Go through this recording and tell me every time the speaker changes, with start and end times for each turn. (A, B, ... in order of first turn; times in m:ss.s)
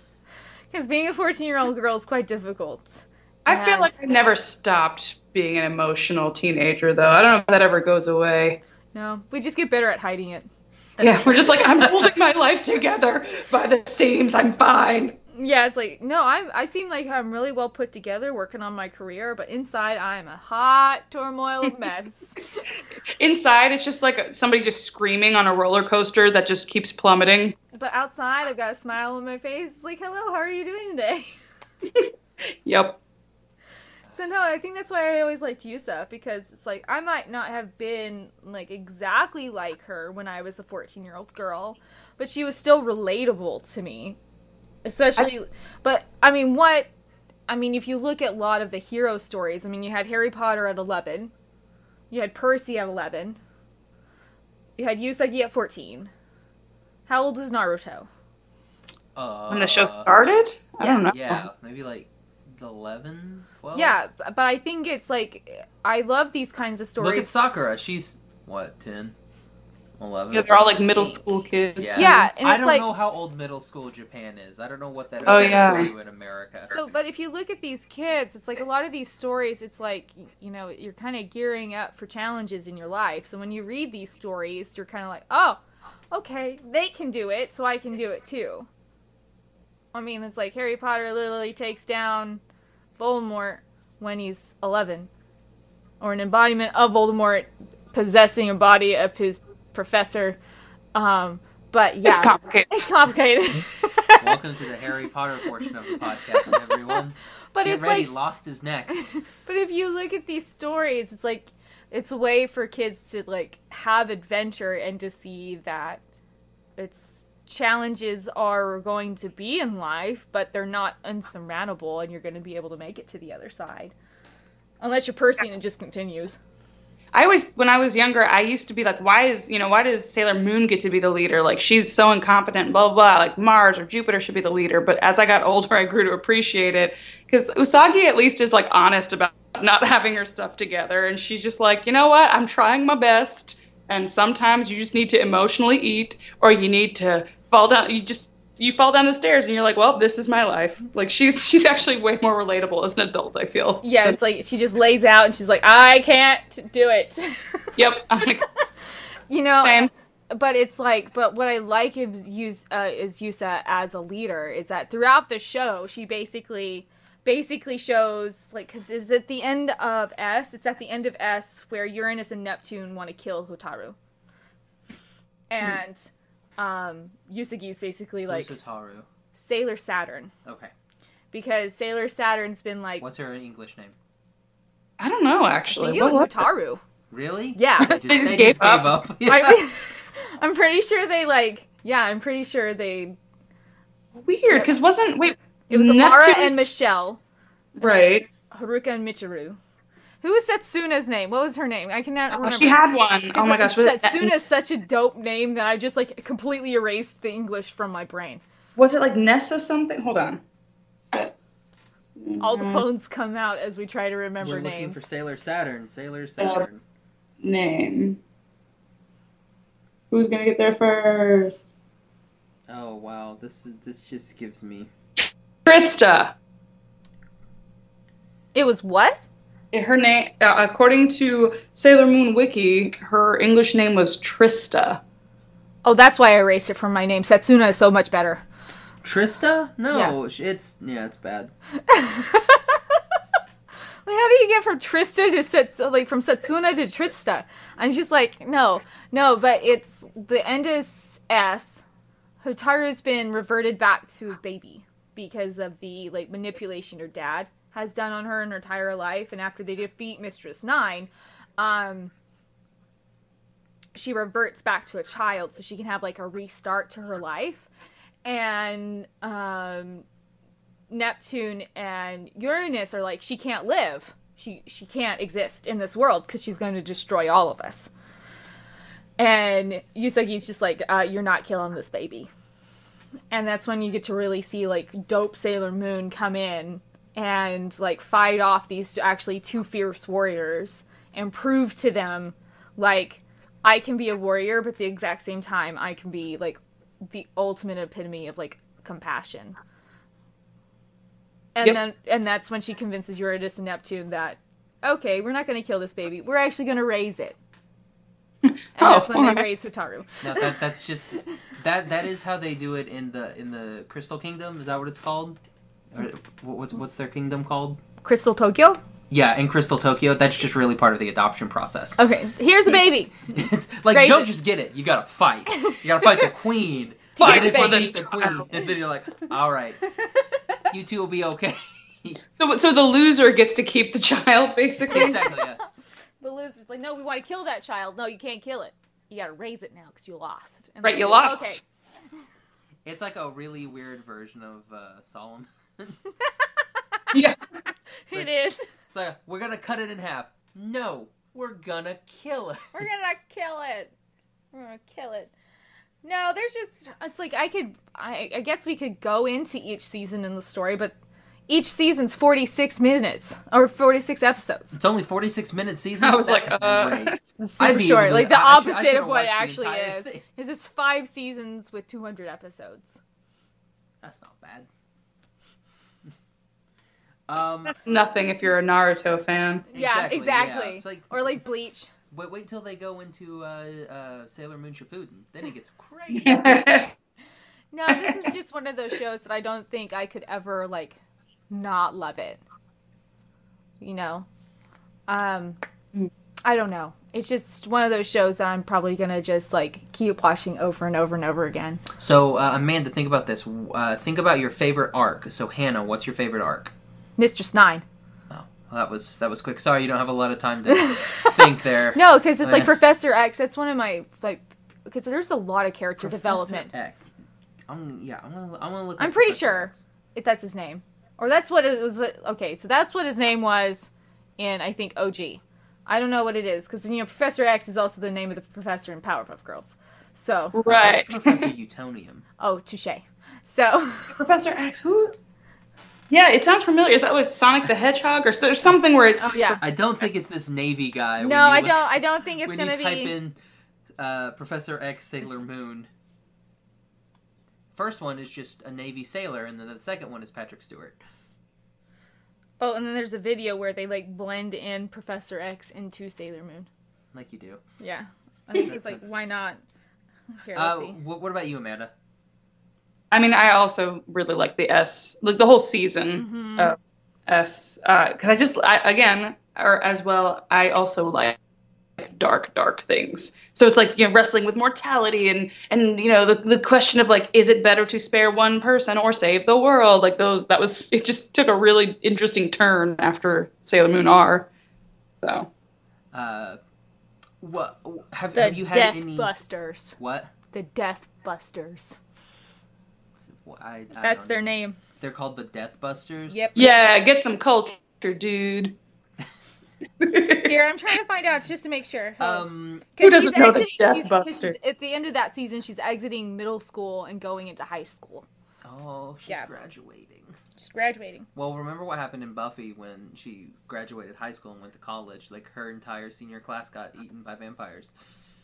0:00.7-0:03.9 A
0:03.4-0:08.6 B
0:08.9-0:10.5 A
0:11.0-0:12.1 C
0:11.0-0:15.2 B
0:15.3-0:22.4 A
0:23.2-0:27.6 B
0:27.7-0:31.3 A
0:32.6-0:33.0 B
0:34.1-0:44.2 A
0:44.8-0:46.9 A
0:47.5-0:51.3 A
0:52.1-0:53.4 A
0:54.8-0:56.1 A
0:57.1-0:58.1 A
0:59.1-1:00.1 C
0:59.5-1:01.4 B
1:01.0-1:04.0 C
1:03.7-1:07.3 A
1:07.0-1:09.1 C
1:10.0-1:11.2 C
1:10.3-1:12.2 B
1:11.8-1:16.7 C
1:12.0-1:12.9 A
1:15.2-1:15.9 B
1:16.7-1:25.6 A
1:26.1-1:28.7 A
1:29.9-1:32.4 A
1:33.0-1:35.1 A
1:36.0-1:40.4 A
1:40.9-1:44.3 A
1:42.0-1:42.7 B
1:44.2-1:49.1 C
1:46.4-1:46.9 A
1:47.5-1:48.1 A
1:48.9-1:56.0 A
1:56.8-2:03.9 A
2:04.8-2:06.4 A
2:07.1-2:34.2 B
2:33.8-2:38.2 A
2:37.8-2:38.5 B
2:39.3-2:54.0 A
2:39.6-2:39.9 B
2:55.5-2:58.5 A
2:58.3-2:59.1 C
2:59.3-3:00.3 A
3:00.4-3:00.7 C
3:01.3-3:03.0 A
3:03.0-3:03.9 C
3:05.0-3:06.5 B
3:05.7-3:06.8 A
3:07.1-3:09.6 C
3:07.6-3:08.0 A
3:07.8-3:09.0 B
3:09.2-3:13.2 A
3:14.2-3:16.5 B
3:15.7-3:17.2 A
3:17.8-3:18.2 B
3:17.8-3:19.6 A
3:20.2-3:22.8 A
3:22.3-3:24.3 B
3:23.3-3:28.4 A
3:28.8-3:30.4 B
3:31.0-3:31.5 B
3:32.2-3:32.8 B
3:32.4-3:35.0 A
3:34.4-3:36.8 C
3:37.4-3:38.2 B
3:40.1-3:41.6 B
3:42.7-3:44.9 C
3:45.6-3:46.3 B
3:48.5-3:49.2 A
3:49.7-3:55.0 B
3:55.8-3:58.4 A
3:59.0-4:01.5 C
3:59.9-4:00.1 A
4:01.9-4:02.8 A
4:04.0-4:11.8 A
4:12.4-4:22.1 A
4:23.9-4:27.7 A
4:28.2-4:30.0 A
4:30.9-4:37.9 A
4:39.2-4:42.3 A
4:43.3-4:59.6 A
5:01.5-5:07.4 A
5:08.4-5:09.4 B
5:08.8-5:10.5 A
5:10.2-5:15.4 C
5:15.9-5:17.8 C
5:18.0-5:18.8 A
5:19.1-5:22.0 C
5:22.0-5:23.1 A
5:23.3-5:29.8 C
5:23.9-5:24.3 A
5:25.5-5:26.2 A
5:27.2-5:27.9 A
5:27.2-5:28.5 B
5:30.7-5:32.2 C
5:32.4-5:35.2 B
5:34.9-5:35.7 C
5:34.9-5:35.2 A
5:36.2-5:41.6 A
5:40.8-5:41.6 B
5:42.8-5:46.0 C
5:47.1-5:47.4 B
5:48.1-5:48.7 A
5:48.1-5:52.8 C
5:52.7-5:53.9 A
5:54.5-5:55.3 A
5:56.0-6:00.9 A
6:01.5-6:04.8 A
6:04.7-6:10.2 C
6:06.0-6:07.2 B
6:07.4-6:13.0 A
6:14.0-6:14.7 C
6:17.3-6:17.8 C
6:17.8-6:19.6 B
6:19.7-6:21.1 C
6:19.7-6:21.9 A
6:22.1-6:26.7 C
6:26.1-6:26.9 B
6:27.7-6:31.0 A
6:31.5-6:32.4 A
6:33.8-6:34.3 A
6:35.1-6:35.6 A
6:36.4-6:41.8 A
6:42.0-6:46.7 C
6:47.2-6:47.8 A
6:48.3-6:52.8 C
6:50.7-6:56.7 A
6:56.0-6:57.1 C
6:57.7-6:59.8 C
6:59.0-7:10.6 A
7:10.5-7:11.5 B
7:10.6-7:12.2 C
7:12.4-7:14.2 A
7:14.1-7:15.2 B
7:16.1-7:19.6 B
7:19.2-7:19.6 A
7:19.6-7:23.4 C
7:21.2-7:23.1 A
7:24.0-7:25.9 C
7:27.7-7:31.0 C
7:32.6-7:36.7 A
7:37.1-7:37.6 C
7:37.8-7:39.6 A
7:38.6-7:39.2 C
7:40.3-7:41.0 A
7:40.5-7:41.9 C
7:43.1-7:51.4 B
7:46.2-7:46.7 A
7:52.0-8:04.5 B
8:05.2-8:05.5 B
8:06.1-8:06.6 C
8:07.4-8:09.3 C
8:08.3-8:10.0 A
8:10.0-8:10.3 C
8:10.5-8:12.0 A
8:13.2-8:16.5 C
8:14.0-8:14.8 A
8:16.3-8:16.7 A
8:16.5-8:18.8 B
8:20.0-8:20.5 B
8:20.3-8:28.2 A
8:22.2-8:22.9 C
8:23.0-8:24.6 B
8:28.6-8:30.4 C
8:30.6-8:31.3 A
8:31.3-8:37.9 C